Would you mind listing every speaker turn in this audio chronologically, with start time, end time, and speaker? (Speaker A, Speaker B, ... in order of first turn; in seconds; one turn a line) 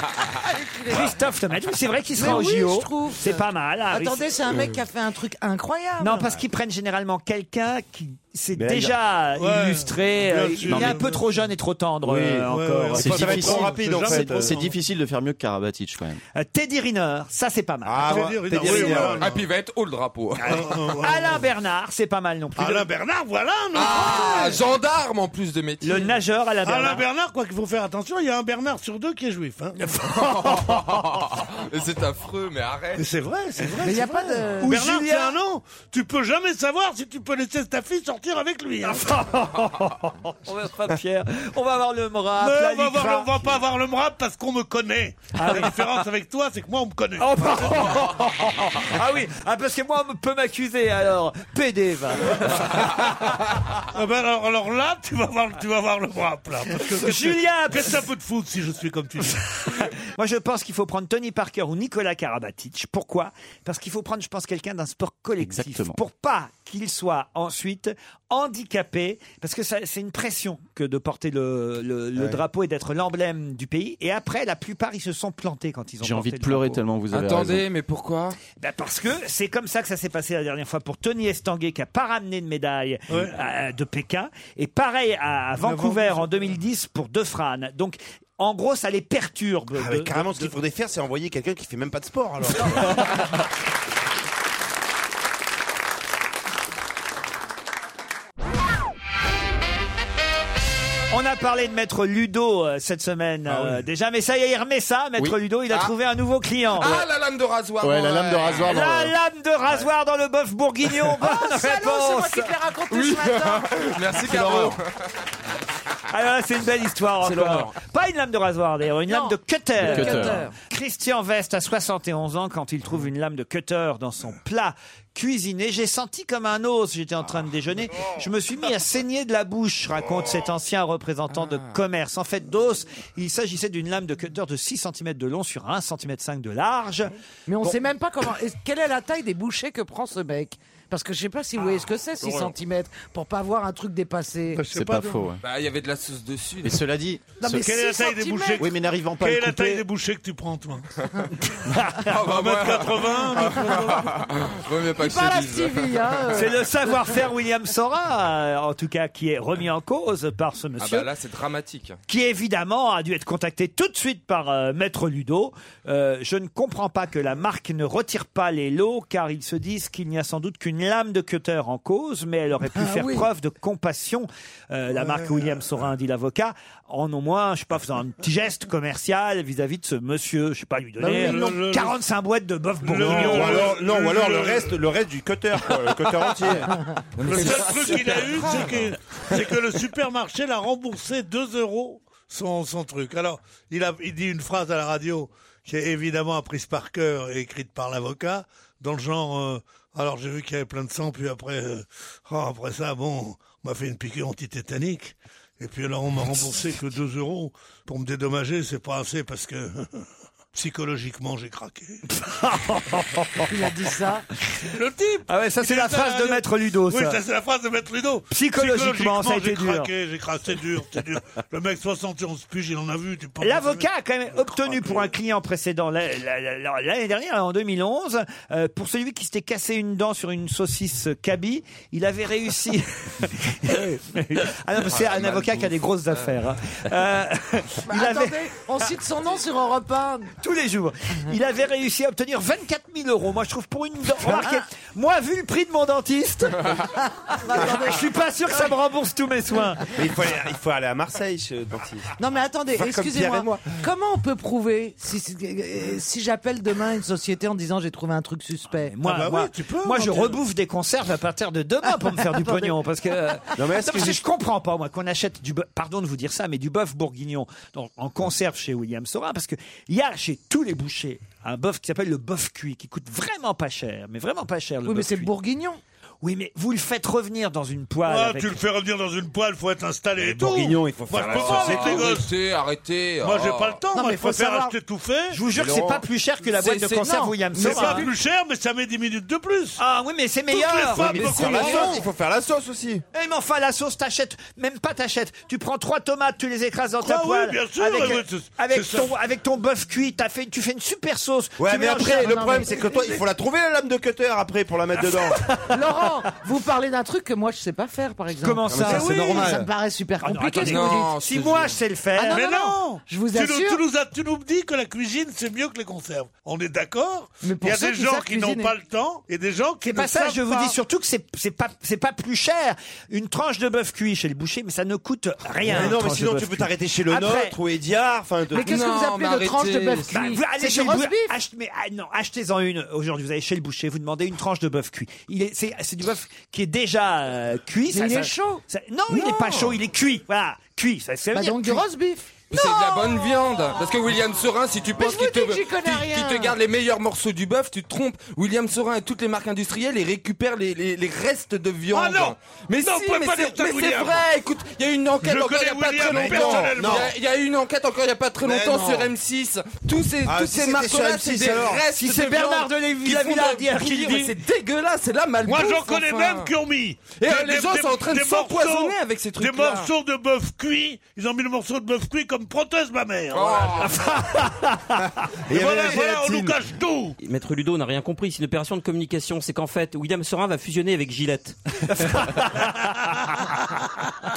Speaker A: 0.5-1.1
Speaker B: 0.9-4.3
Speaker A: 2.1-6.4
Speaker B: 6.0-13.2
Speaker C: 8.6-9.0
Speaker D: 9.4-11.4
Speaker E: 10.7-11.0
Speaker E: 12.1-16.2
Speaker D: 12.5-14.7
Speaker C: 13.0-14.6
Speaker B: 16.4-18.8
Speaker C: 17.9-19.4
Speaker D: 18.0-19.4
Speaker F: 18.8-20.8
Speaker B: 20.4-22.9
Speaker D: 20.4-21.4
Speaker D: 22.6-24.6
Speaker F: 23.7-26.1
Speaker B: 25.8-27.0
Speaker D: 26.6-30.0
Speaker F: 30.0-33.0
Speaker D: 33.0-39.2
Speaker A: 33.8-34.9
Speaker B: 34.6-35.4
Speaker B: 38.9-43.6
Speaker D: 42.4-47.9
Speaker B: 45.4-45.9
Speaker B: 47.2-53.1
Speaker D: 53.9-59.9
Speaker B: 56.9-58.0
Speaker B: 59.6-76.8
Speaker E: 65.4-66.0
Speaker E: 76.0-77.7
Speaker F: 77.1-78.4
Speaker B: 78.6-90.5
Speaker D: 83.1-83.3
Speaker D: 85.6-86.6
Speaker C: 89.8-93.2
Speaker B: 101.1-107.0
Speaker F: 106.8-108.7
Speaker E: 107.8-109.2
Speaker B: 108.6-112.5
Speaker A: 111.2-113.9
Speaker F: 112.9-114.9
Speaker E: 114.5-114.8
Speaker B: 116.1-137.8
Speaker G: 117.2-117.7
Speaker A: 119.1-120.5
Speaker E: 119.8-120.5
Speaker F: 131.3-131.8
Speaker A: 137.5-144.7
Speaker D: 144.6-145.2
Speaker E: 144.7-145.4
Speaker F: 145.4-146.8
Speaker E: 146.6-147.7
Speaker A: 147.4-148.7
Speaker D: 147.4-151.0
Speaker E: 148.6-149.8
Speaker B: 151.7-152.1
Speaker F: 152.0-156.4
Speaker D: 152.1-154.3
Speaker A: 154.9-157.2
Speaker B: 156.3-161.1
Speaker F: 160.8-162.0
Speaker B: 162.1-183.7
Speaker A: 172.7-173.3
Speaker D: 174.9-175.8
Speaker D: 181.0-182.0
Speaker A: 181.0-181.6
Speaker D: 182.8-184.8
Speaker C: 183.0-187.9
Speaker D: 187.2-212.0
Speaker F: 187.3-188.1
Speaker B: 212.1-213.5
Speaker A: 213.5-214.2
Speaker D: 214.6-225.1
Speaker B: 215.3-217.2
Speaker B: 218.3-219.9
Speaker B: 223.4-238.6
Speaker F: 234.9-235.7
Speaker A: 237.9-240.3
Speaker B: 240.4-246.9
Speaker A: 244.2-244.7
Speaker A: 247.0-248.7
Speaker B: 247.4-249.9
Speaker C: 249.9-252.1
Speaker A: 252.2-258.9
Speaker C: 252.7-253.8
Speaker B: 258.8-275.3
Speaker D: 259.0-260.4
Speaker A: 262.1-262.8
Speaker C: 263.6-264.2
Speaker A: 274.9-275.8
Speaker B: 276.2-278.6
Speaker D: 278.1-282.3
Speaker C: 280.2-282.1
Speaker F: 281.2-283.8
Speaker D: 283.2-285.4
Speaker A: 283.9-284.8
Speaker B: 285.3-288.1
Speaker C: 285.5-286.0
Speaker F: 286.6-287.0
Speaker A: 287.0-288.1
Speaker D: 287.5-289.8
Speaker B: 289.8-292.0
Speaker D: 290.5-292.1
Speaker C: 290.9-293.0
Speaker B: 293.1-302.7
Speaker D: 297.0-299.1
Speaker C: 301.6-305.4
Speaker A: 301.9-303.2
Speaker B: 305.3-305.7
Speaker A: 305.7-311.1
Speaker B: 308.4-309.6
Speaker C: 308.7-309.7
Speaker B: 310.2-312.5
Speaker F: 310.6-311.8
Speaker A: 312.1-313.8
Speaker D: 312.3-320.8
Speaker A: 317.4-318.8
Speaker B: 319.9-327.6
Speaker C: 325.6-328.7
Speaker A: 328.5-331.4
Speaker F: 328.6-330.2
Speaker B: 330.1-341.9
Speaker A: 337.9-338.6
Speaker F: 339.1-339.8
Speaker A: 341.3-343.5
Speaker F: 342.5-366.5
Speaker A: 344.9-346.6
Speaker D: 351.9-354.3
Speaker D: 355.2-357.1
Speaker C: 356.1-357.1
Speaker C: 358.4-359.1
Speaker C: 360.2-361.8
Speaker B: 362.0-364.4
Speaker D: 365.4-374.5
Speaker F: 367.2-369.9
Speaker F: 373.3-374.0
Speaker B: 374.1-374.9
Speaker C: 375.5-376.6
Speaker D: 375.5-377.2
Speaker G: 377.2-381.6
Speaker B: 381.9-383.6